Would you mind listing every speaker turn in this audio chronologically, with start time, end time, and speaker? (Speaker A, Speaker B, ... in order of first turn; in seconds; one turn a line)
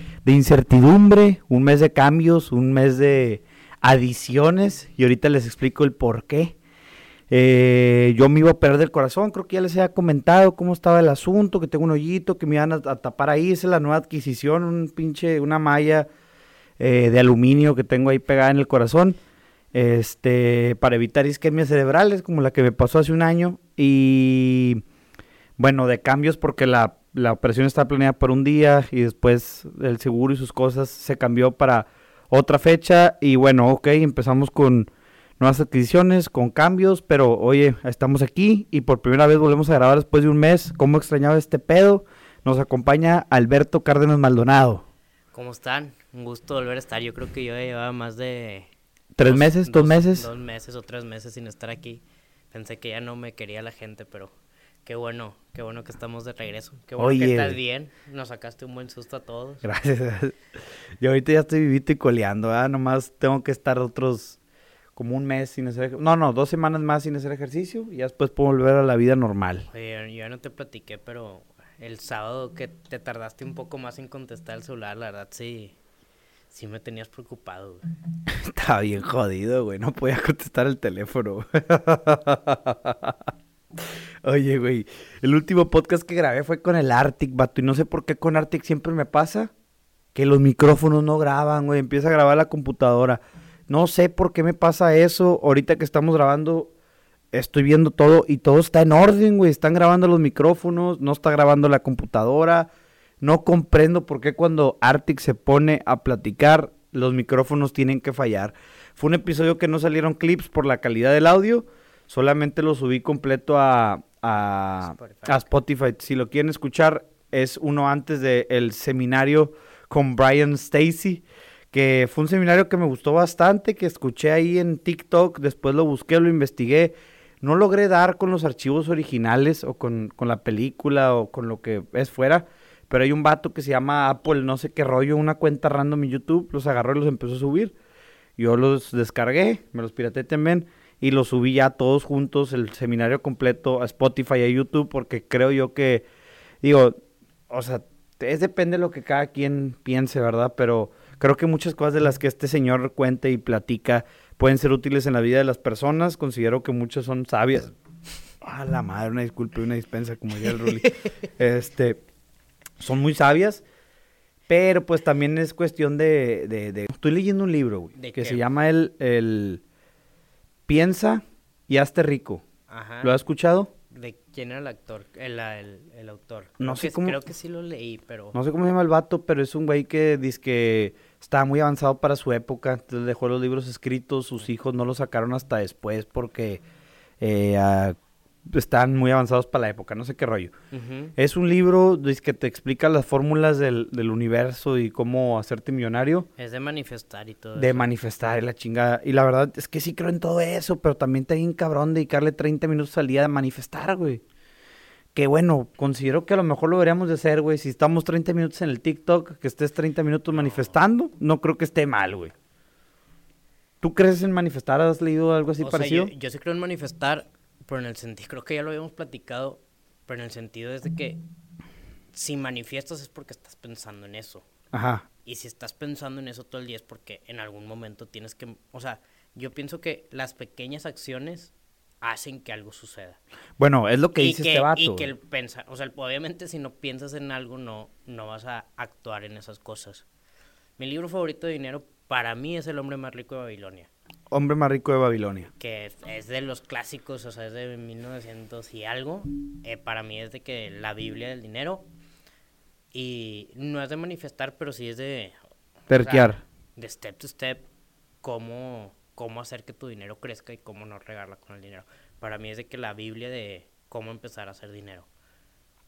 Speaker A: 0.2-6.5
Speaker A: 7.3-16.1
Speaker A: 16.8-19.2
Speaker A: 19.7-24.8
Speaker A: 25.6-44.8
Speaker B: 45.3-48.7
Speaker A: 49.1-50.3
Speaker B: 49.2-54.3
Speaker B: 54.8-59.7
Speaker A: 57.0-57.6
Speaker A: 59.6-60.3
Speaker A: 61.0-64.4
Speaker A: 65.0-69.7
Speaker B: 69.7-75.7
Speaker B: 76.5-77.8
Speaker A: 78.3-83.2
Speaker A: 84.2-89.5
Speaker A: 90.1-96.7
Speaker A: 97.3-102.7
Speaker A: 103.2-137.7
Speaker B: 114.8-115.4
Speaker A: 138.4-146.1
Speaker A: 146.6-147.0
Speaker A: 147.5-157.7
Speaker A: 158.4-162.0
Speaker B: 160.6-160.9
Speaker A: 162.8-163.6
Speaker A: 164.5-169.6
Speaker B: 168.0-168.4
Speaker A: 170.7-172.4
Speaker B: 172.7-173.1
Speaker A: 173.0-173.7
Speaker B: 173.9-178.3
Speaker A: 176.6-177.2
Speaker A: 178.3-186.6
Speaker A: 187.2-187.9
Speaker A: 188.5-190.5
Speaker B: 190.7-191.1
Speaker A: 191.2-196.3
Speaker B: 196.4-197.9
Speaker A: 197.6-204.2
Speaker A: 205.1-212.3
Speaker B: 210.3-210.7
Speaker A: 213.8-216.1
Speaker B: 215.6-221.2
Speaker B: 222.1-224.4
Speaker A: 224.7-225.0
Speaker B: 225.2-231.5
Speaker B: 232.0-233.2
Speaker A: 233.6-235.1
Speaker B: 234.2-240.0
Speaker B: 240.8-243.9
Speaker A: 244.3-245.5
Speaker B: 245.6-251.8
Speaker B: 252.9-255.3
Speaker A: 255.9-256.4
Speaker B: 255.9-257.6
Speaker B: 258.2-265.1